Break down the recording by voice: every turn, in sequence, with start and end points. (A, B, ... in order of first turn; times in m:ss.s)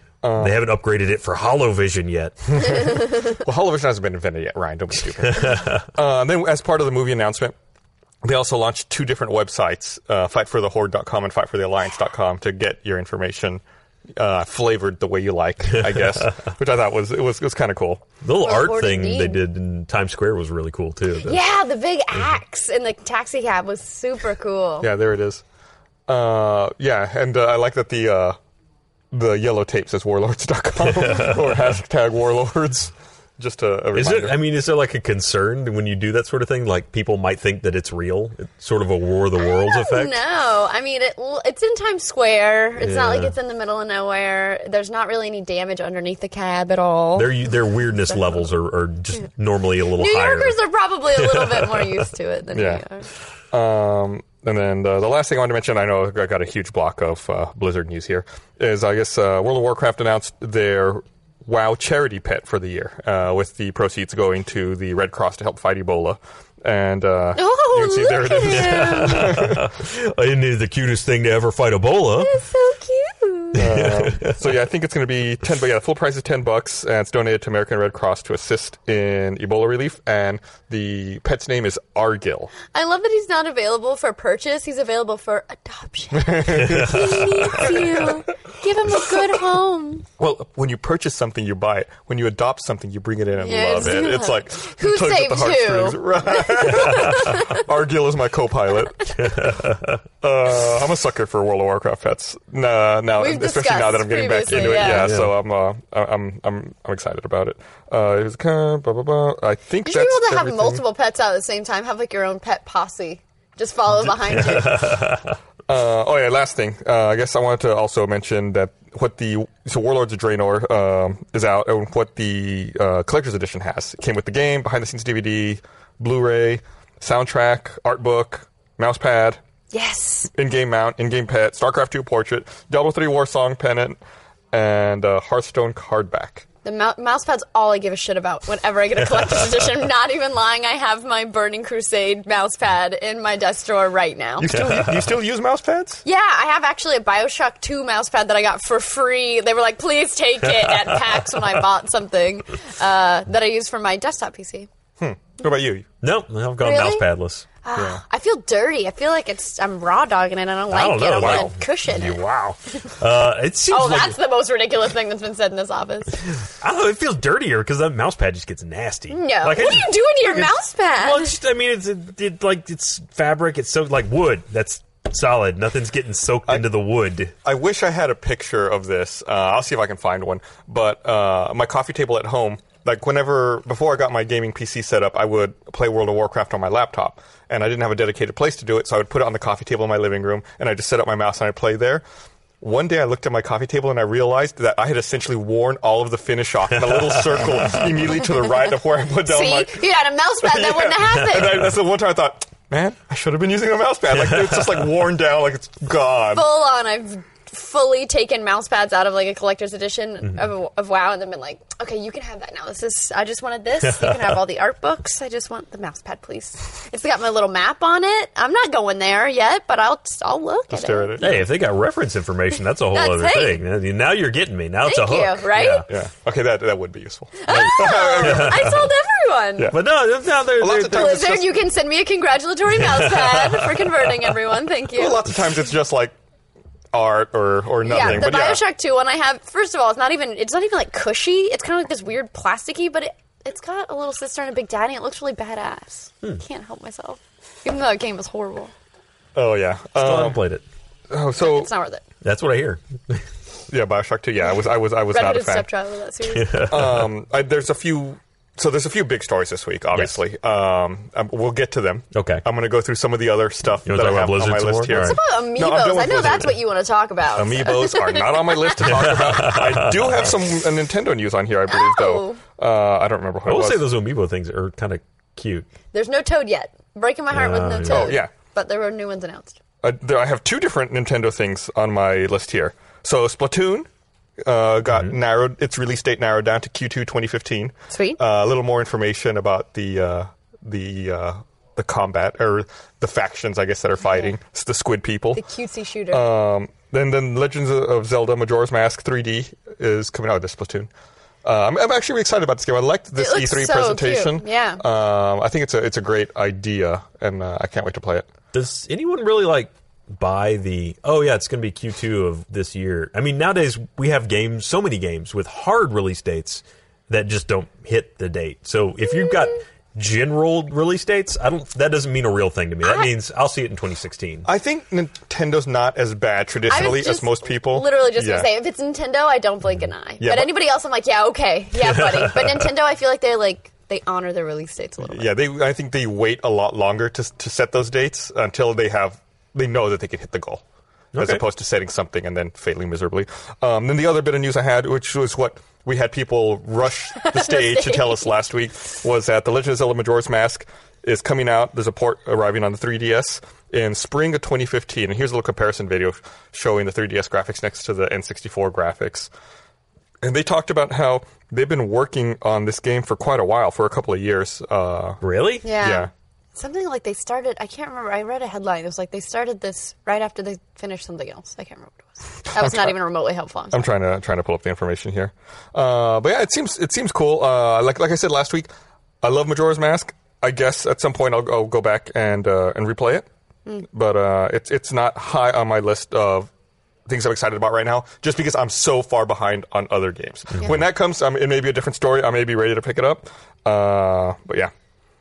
0:00.2-0:00.6 A
0:00.4-0:02.8 B
0:02.5-0:07.6 A
0:05.2-0:05.8 B
0:08.2-0:13.6 A
0:14.2-0:18.1 A
0:15.7-0:16.3 B
0:18.2-0:21.4 B
0:18.4-0:19.4 C
0:21.2-0:24.9 C
0:24.8-0:25.4 A
0:26.1-0:28.4 A
0:29.1-0:34.4 A
0:30.9-0:31.4 B
0:33.9-0:40.2 B
0:39.4-0:47.5 C
0:42.8-0:43.3 B
0:47.1-0:50.6 B
0:49.9-0:53.0 C
0:51.1-0:52.0 B
0:52.5-0:52.8 A
0:53.5-1:09.7 A
1:07.3-1:09.3 C
1:08.5-1:12.3 B
1:12.1-1:13.6 C
1:13.6-1:14.5 B
1:13.6-1:22.5 A
1:22.7-1:30.1 C
1:26.1-1:28.2 A
1:26.6-1:27.5 B
1:30.2-1:39.3 A
1:33.4-1:37.6 C
1:39.2-1:40.0 B
1:40.2-1:50.8 A
1:43.2-1:45.1 C
1:44.5-1:45.3 B
1:49.8-1:55.0 C
1:54.3-1:55.3 B
1:55.7-2:09.4 A
2:09.7-2:10.3 C
2:10.3-2:14.0 A
2:14.5-2:16.4 A
2:16.6-2:24.5 C
2:24.4-2:26.0 A
2:24.5-2:25.0 B
2:26.0-2:34.7 C
2:35.0-2:35.9 A
2:36.0-2:37.4 B
2:36.6-2:37.1 C
2:37.6-2:42.2 C
2:37.8-2:38.0 A
2:40.7-2:44.2 B
2:41.2-2:41.5 A
2:43.7-2:46.3 C
2:46.4-2:57.3 B
2:49.1-2:51.3 C
2:57.4-3:12.0 A
3:12.6-3:19.8 A
3:16.7-3:17.8 B
3:19.2-3:21.7 C
3:20.4-3:26.4 A
3:26.3-3:41.2 C
3:33.8-3:34.4 B
3:40.7-3:41.4 A
3:41.2-3:45.8 B
3:42.9-3:43.6 C
3:44.8-3:45.8 C
3:45.9-3:48.8 A
3:47.4-3:49.7 C
3:48.2-3:48.8 B
3:49.7-3:51.4 B
3:50.6-3:51.6 A
3:50.9-3:55.2 C
3:52.7-3:54.3 B
3:55.0-3:56.1 A
3:56.9-3:58.6 A
3:57.8-4:08.7 C
3:58.0-3:58.3 B
4:09.3-4:10.4 A
4:10.0-4:10.6 B
4:11.1-4:11.7 A
4:11.4-4:12.0 C
4:12.2-4:13.2 B
4:13.7-4:15.7 A
4:15.1-4:16.7 C
4:16.3-4:17.1 B
4:16.7-4:26.6 A
4:22.1-4:22.4 B
4:23.8-4:25.2 B
4:24.9-4:29.2 C
4:27.3-4:33.9 A
4:28.8-4:30.3 B
4:31.7-4:32.4 C
4:33.4-4:35.7 B
4:35.9-4:39.6 C
4:37.3-4:38.2 B
4:37.8-4:38.3 A
4:39.8-4:43.9 A
4:44.4-4:55.4 A
4:44.9-4:45.2 B
4:47.9-4:48.2 C
4:54.1-4:54.3 C
4:55.3-4:56.2 C
4:56.1-5:00.9 A
5:01.4-5:08.3 A
5:03.2-5:04.8 C
5:08.5-5:24.5 B
5:24.4-5:28.5 A
5:26.7-5:35.3 C
5:30.2-5:30.5 A
5:31.8-5:32.7 B
5:35.0-5:40.6 A
5:41.1-5:41.4 B
5:41.2-5:59.3 A
5:47.2-5:48.3 C
6:00.2-6:05.2 A
6:05.2-6:05.6 B
6:05.6-6:13.8 C
6:05.8-6:06.1 A
6:12.5-6:12.9 A
6:13.7-6:18.7 A
6:19.2-6:23.2 A
6:23.9-6:26.5 A
6:27.1-6:34.7 A